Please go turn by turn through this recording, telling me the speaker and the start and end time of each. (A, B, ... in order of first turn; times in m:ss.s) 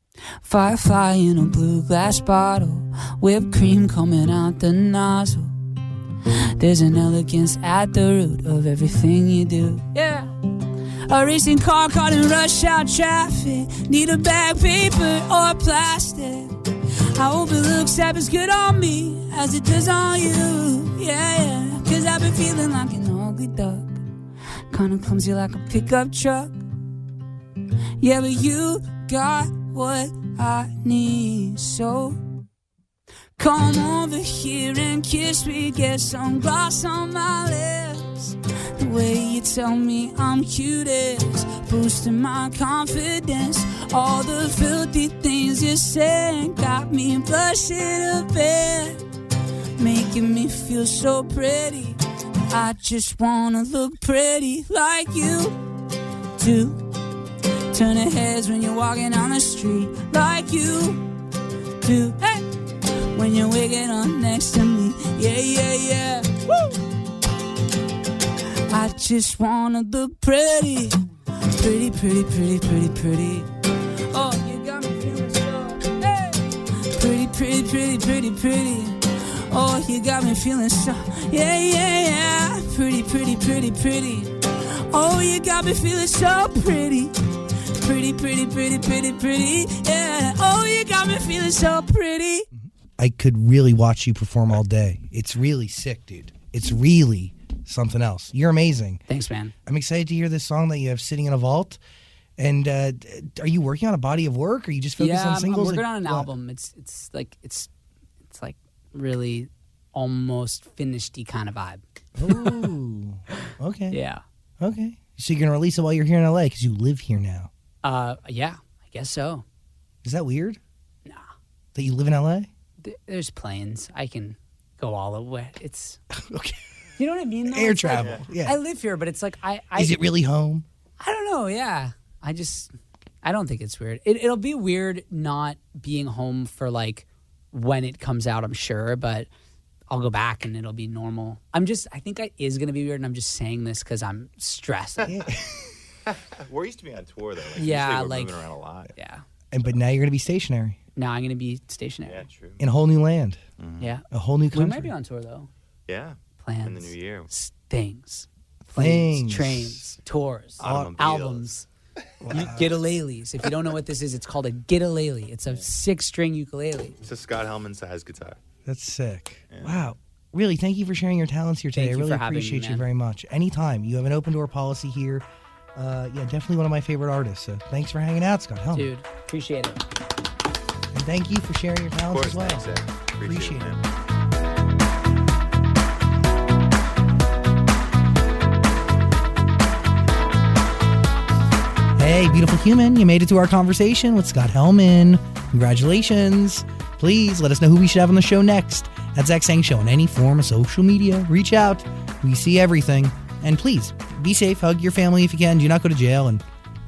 0:00.4-0:05.6 A
0:06.6-0:10.3 A
0:11.1-0:16.6 A
0:17.1-0:24.0 A
0:24.7-0:26.6 A
0:28.0-0:32.2 A
0:33.4-0:49.0 A
0:49.8-0:55.6 A
0:56.4-0:56.8 A
0:57.7-1:01.1 A
1:01.8-1:06.8 A
1:08.7-1:13.5 A
1:14.1-1:32.5 A
1:32.6-1:39.0 B
1:39.1-1:39.5 A
1:39.7-1:41.8 B
1:42.4-1:46.3 B
1:45.0-1:47.7 A
1:48.3-1:52.7 A
1:52.2-1:54.0 B
1:53.9-1:54.2 A
1:54.6-1:57.5 B
1:57.8-1:59.4 A
2:00.0-2:00.6 B
2:01.8-2:02.5 B
2:02.8-2:06.0 A
2:06.1-2:06.6 B
2:07.0-2:10.0 A
2:07.5-2:08.6 B
2:07.9-2:08.3 C
2:09.8-2:10.6 B
2:11.0-2:12.7 A
2:13.2-2:19.3 A
2:19.9-2:25.2 A
2:25.1-2:25.7 B
2:26.1-2:28.9 C
2:27.6-2:29.2 A
2:29.5-2:30.8 B
2:31.0-2:32.2 A
2:32.1-2:32.6 C
2:32.6-2:33.4 B
2:33.6-2:33.9 C
2:33.8-2:35.5 A
2:34.1-2:34.9 B
2:35.9-2:37.3 C
2:36.4-2:41.7 A
2:38.8-2:39.8 B
2:40.6-2:41.5 C
2:40.6-2:41.0 B
2:42.2-2:42.7 B
2:42.3-2:47.0 A
2:47.0-2:48.4 C
2:48.6-2:55.2 B
2:51.8-2:52.8 A
2:55.8-2:58.9 B
2:58.7-2:59.8 A
3:00.9-3:02.6 B
3:02.1-3:03.8 C
3:03.2-3:03.7 B
3:12.0-3:26.4 B